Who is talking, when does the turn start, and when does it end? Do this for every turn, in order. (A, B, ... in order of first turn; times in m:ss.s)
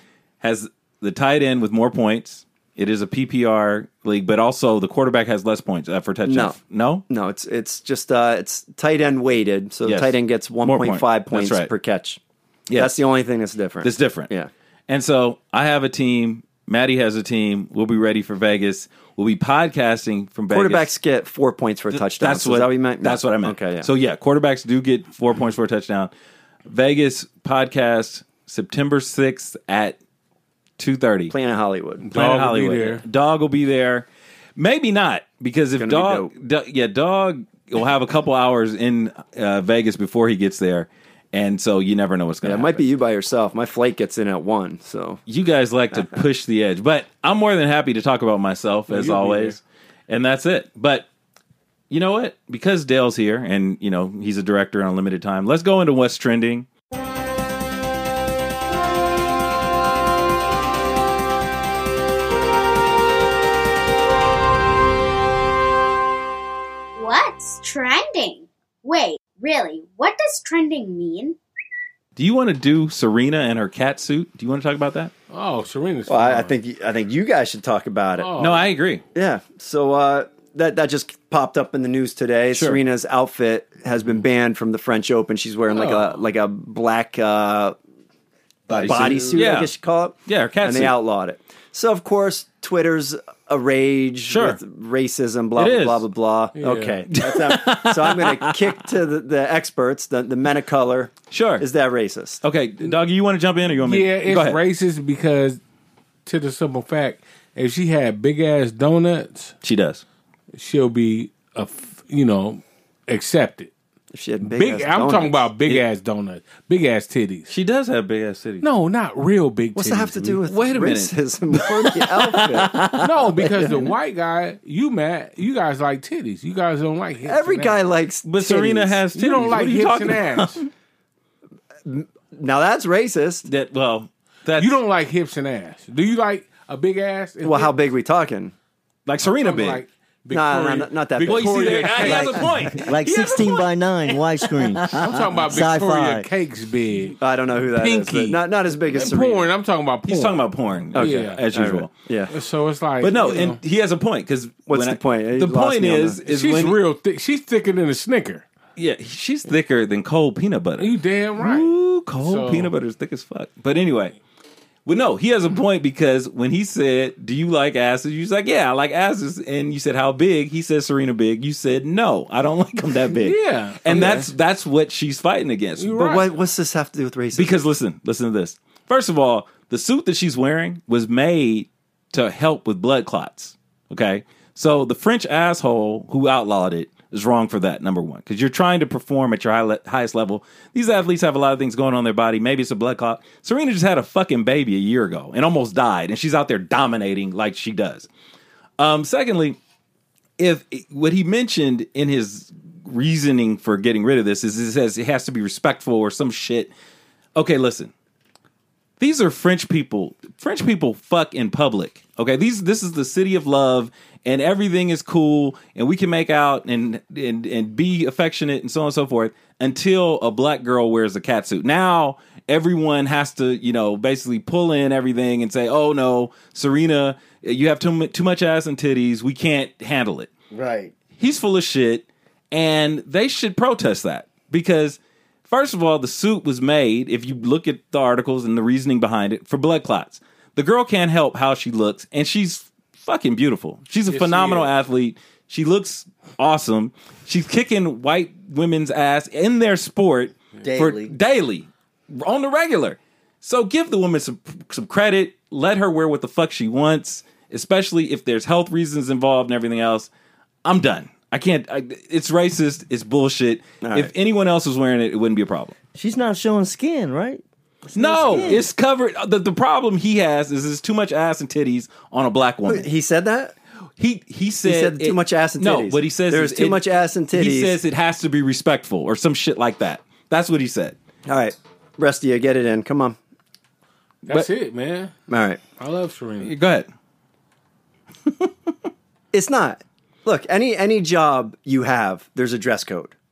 0:00.4-0:07.0 A
0:06.2-0:06.6 B
0:07.1-0:12.2 B
0:09.8-0:11.7 A
0:12.7-0:13.0 A
0:12.8-0:14.5 B
0:13.8-0:14.3 A
0:14.9-0:20.9 A
0:20.5-0:23.9 B
0:21.9-0:26.1 A
0:26.7-0:30.0 A
0:30.8-0:31.3 A
0:31.3-0:32.1 B
0:32.0-0:33.0 C
0:32.1-0:34.1 A
0:34.6-0:42.9 A
0:35.8-0:36.3 B
0:42.4-0:45.2 B
0:45.3-0:51.1 A
0:45.9-0:46.2 B
0:48.9-0:49.6 C
0:51.9-0:56.7 A
1:07.0-1:11.4 D
1:12.2-1:15.1 A
1:15.3-1:16.6 C
1:16.1-1:18.3 B
1:18.2-1:18.7 C
1:18.4-1:19.0 A
1:19.2-1:27.8 B
1:22.5-1:22.8 A
1:25.7-1:26.2 C
1:28.7-1:29.4 E
1:28.7-1:42.4 B
1:28.7-1:29.7 A
1:30.2-1:31.0 A
1:34.3-1:34.6 A
1:35.6-1:36.0 A
1:36.6-1:37.0 C
1:37.1-1:38.6 A
1:41.3-1:41.7 A
1:42.4-1:44.6 A
1:43.8-1:45.6 C
1:46.2-1:49.5 C
1:49.6-1:50.0 A
1:50.5-1:53.7 C
1:54.1-1:55.5 B
1:54.4-1:57.5 C
1:57.5-1:58.7 A
1:58.6-2:00.4 C
1:59.8-2:02.8 B
2:00.5-2:03.1 A
2:03.0-2:07.8 C
2:03.4-2:03.9 B
2:07.2-2:09.0 B
2:08.2-2:10.7 A
2:09.2-2:10.6 C
2:11.8-2:13.5 B
2:13.5-2:14.8 A
2:14.6-2:17.7 C
2:17.4-2:18.5 B
2:19.1-2:19.8 A
2:19.4-2:22.6 C
2:20.3-2:22.4 B
2:21.2-2:25.0 A
2:22.1-2:26.3 E
2:25.0-2:27.2 C
2:27.2-2:29.5 B
2:27.7-2:31.4 C
2:30.1-2:31.9 A
2:30.9-2:32.3 B
2:32.3-2:33.6 C
2:33.0-2:36.8 A
2:34.7-2:36.2 B
2:36.3-2:38.4 C
2:38.8-2:44.2 A
2:40.8-2:42.7 C
2:44.9-2:56.0 A
2:53.2-2:54.2 C
2:53.9-2:54.3 B
2:55.8-2:56.3 C
2:55.9-2:57.6 B
2:57.3-3:18.1 A
3:18.8-3:19.6 A
3:20.4-3:26.7 A
3:27.4-3:27.9 A
3:29.0-3:50.3 A
3:50.5-3:50.9 E
3:51.2-4:20.1 A
4:04.1-4:04.7 C
4:10.6-4:11.1 E
4:20.6-4:25.7 A
4:23.8-4:24.1 B
4:26.0-4:28.7 E
4:28.0-4:32.9 A
4:32.7-4:33.6 B
4:34.0-4:41.0 A
4:34.6-4:37.8 B
4:41.3-4:43.2 B
4:44.3-4:45.1 C
4:45.3-4:45.6 B
4:45.8-4:46.5 C
4:46.4-4:46.9 A
4:49.3-4:53.2 B